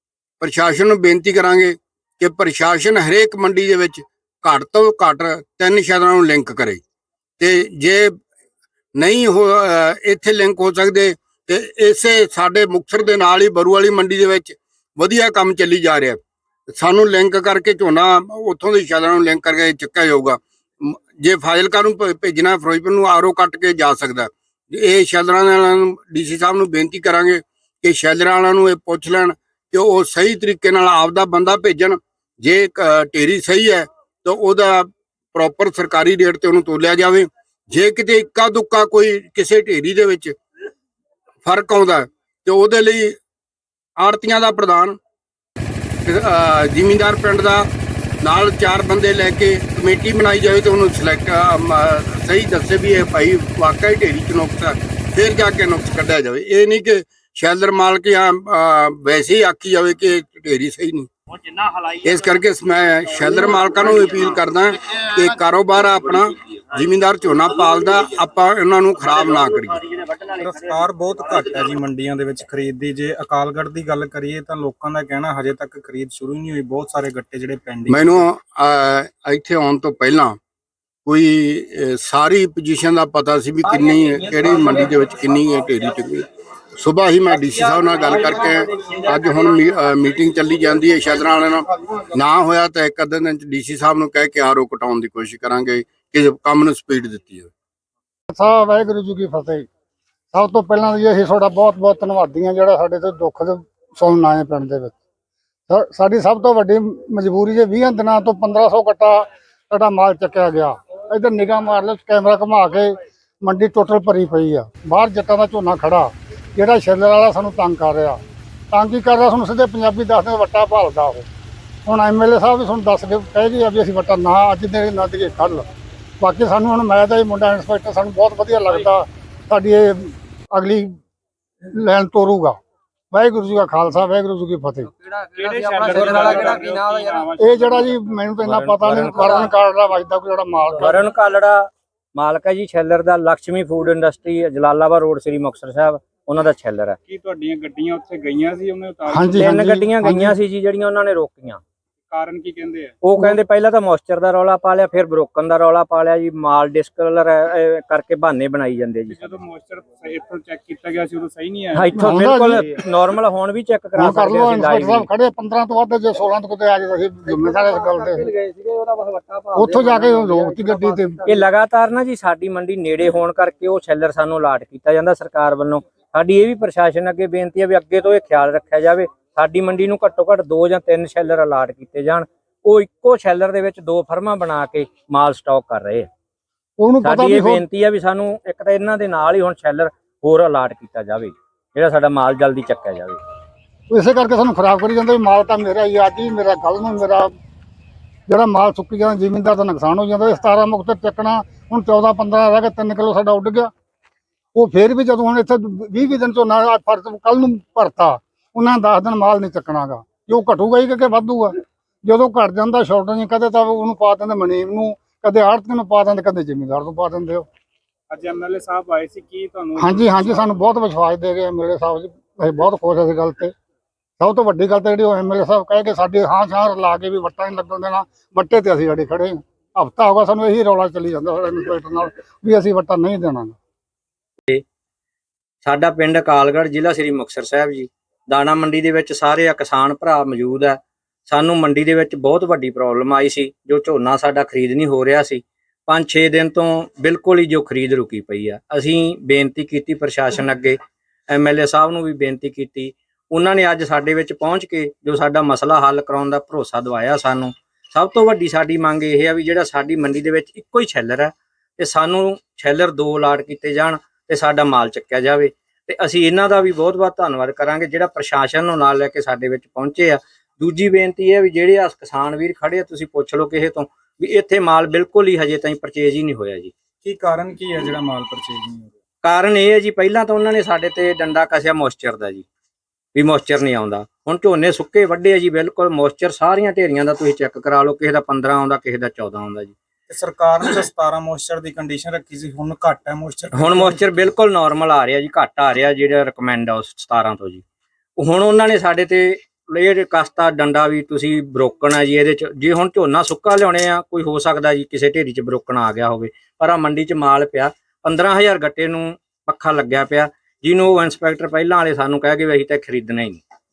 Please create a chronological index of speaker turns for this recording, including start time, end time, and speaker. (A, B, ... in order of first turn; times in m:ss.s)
0:00.4-0:06.8 A
0:07.4-0:08.1 A
0:08.9-0:16.2 A
0:16.7-0:40.3 A
0:41.4-0:43.2 A
0:44.0-0:45.0 A
0:46.0-0:47.7 A
0:48.2-1:01.1 A
1:01.8-1:10.0 A
1:10.3-1:18.2 B
1:17.9-1:20.4 A
1:21.0-1:26.2 A
1:26.8-1:37.5 A
1:38.3-1:39.7 C
1:40.3-1:44.9 C
1:45.7-1:58.2 C
1:58.7-2:01.3 C
2:01.8-2:05.6 C
2:06.2-2:10.9 C
2:11.7-2:12.6 C
2:13.1-2:14.9 C
2:15.3-2:17.3 D
2:15.4-2:18.2 B
2:17.4-2:21.0 C
2:18.4-2:19.5 E
2:20.8-2:27.0 E
2:27.1-2:29.6 B
2:29.1-2:30.4 C
2:29.4-2:31.6 E
2:32.1-2:33.0 B
2:33.0-2:39.4 E
2:39.1-2:42.2 B
2:41.7-2:45.1 E
2:41.9-2:42.7 C
2:44.0-2:48.3 C
2:47.5-2:50.9 D
2:49.5-2:51.2 C
2:51.2-3:06.1 E
3:06.8-3:07.6 C
3:07.0-3:13.2 E
3:13.9-3:17.3 C
3:18.3-3:23.7 C
3:24.5-3:37.4 C
3:38.1-3:40.4 B
3:39.8-3:43.5 C
3:44.2-3:53.6 C
3:55.6-4:10.8 E
4:11.3-4:36.7 E
4:37.0-4:38.9 B
4:39.2-4:42.4 E
4:43.1-4:49.7 E
4:50.1-4:54.1 B
4:53.5-4:57.6 E
4:58.2-5:13.4 E